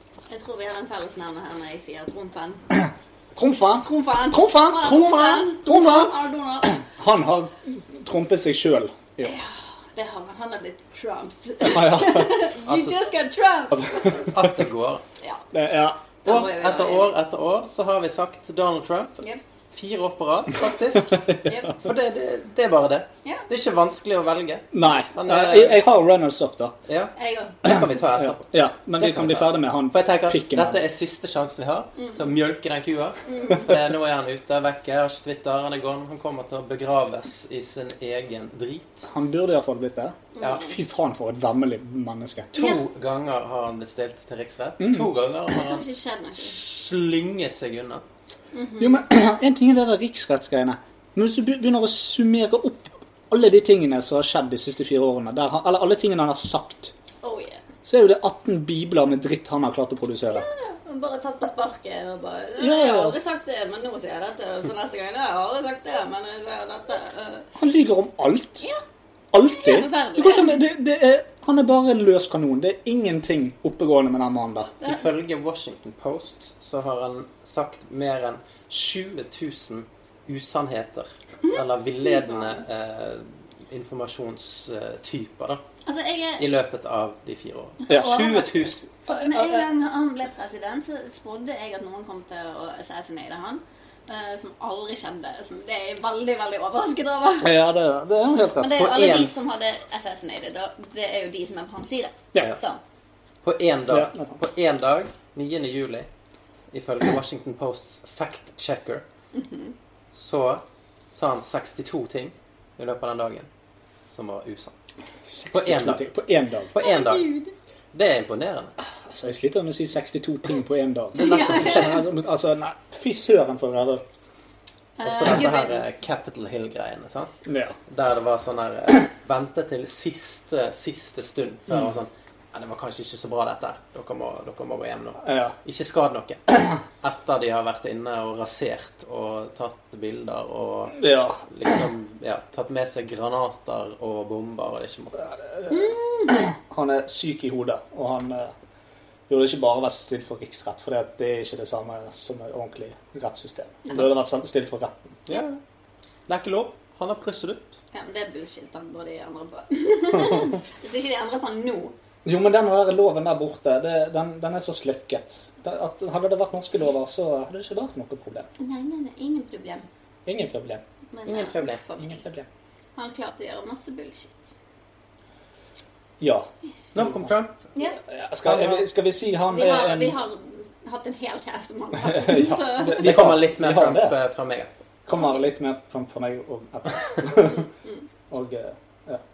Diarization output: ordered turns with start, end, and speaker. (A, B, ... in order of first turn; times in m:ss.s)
0:00.3-0:02.6 A
0:02.7-0:05.1 B
0:04.0-0:06.8 A
0:04.8-0:06.1 C
0:06.7-0:09.3 B
0:09.2-0:14.2 A
0:11.6-0:12.4 B
0:12.6-0:12.9 C
0:13.7-0:14.5 B
0:14.3-0:15.0 C
0:15.5-0:16.0 B
0:16.2-0:17.1 A
0:16.2-0:25.8 C
0:21.4-0:21.8 A
0:24.7-0:26.7 B
0:26.8-0:39.1 C
0:27.2-0:27.6 A
0:27.6-0:30.8 B
0:32.0-0:32.2 A
0:33.2-0:33.7 A
0:39.1-0:42.5 B
0:40.3-0:40.7 A
0:40.4-0:40.6 C
0:42.5-0:48.0 C
0:42.5-0:42.8 A
0:44.8-0:45.1 B
0:45.5-0:46.6 A
0:48.5-0:49.0 A
0:48.8-0:56.9 B
0:57.2-0:57.6 A
0:57.8-1:00.4 B
1:00.3-1:07.5 A
1:02.6-1:03.2 B
1:07.6-1:08.6 B
1:09.3-1:14.7 B
1:09.4-1:10.6 A
1:14.8-1:25.6 C
1:21.5-1:22.6 A
1:25.8-1:26.4 A
1:26.4-1:28.8 C
1:27.8-1:37.5 A
1:27.9-1:28.2 B
1:29.1-1:29.6 B
1:37.4-1:38.8 B
1:38.6-1:42.8 A
1:38.7-1:39.3 C
1:43.4-1:46.1 C
1:43.9-1:44.4 B
1:46.7-1:49.0 C
1:49.3-1:49.7 A
1:50.1-1:53.5 C
1:54.1-1:54.7 C
1:55.3-1:56.7 B
1:55.5-1:56.1 C
1:56.7-1:57.3 C
1:56.8-1:57.5 A
1:57.9-1:58.7 C
1:59.0-2:04.0 B
2:01.1-2:02.0 A
2:01.1-2:02.0 C
2:05.0-2:06.0 A
2:05.0-2:07.3 C
2:07.5-2:07.8 B
2:07.9-2:25.3 C
2:15.2-2:15.5 B
2:21.0-2:21.4 B
2:25.3-2:28.5 B
2:25.7-2:26.4 A
2:29.3-2:35.2 B
2:35.3-2:35.6 C
2:36.3-2:37.8 C
2:37.9-2:42.0 A
2:42.2-2:48.5 B
2:48.6-2:49.9 A
2:50.2-2:50.8 B
2:51.1-2:52.2 A
2:51.2-2:51.8 C
2:52.0-2:52.5 B
2:53.0-2:54.5 A
2:56.2-2:57.3 B
2:56.9-2:57.6 C
2:57.7-2:58.0 A
2:58.1-3:00.2 B
2:58.4-2:58.9 C
2:59.5-3:03.1 A
3:02.0-3:04.2 B
3:02.8-3:04.7 C
3:05.1-3:07.7 B
3:07.5-3:08.0 A
3:08.3-3:09.2 B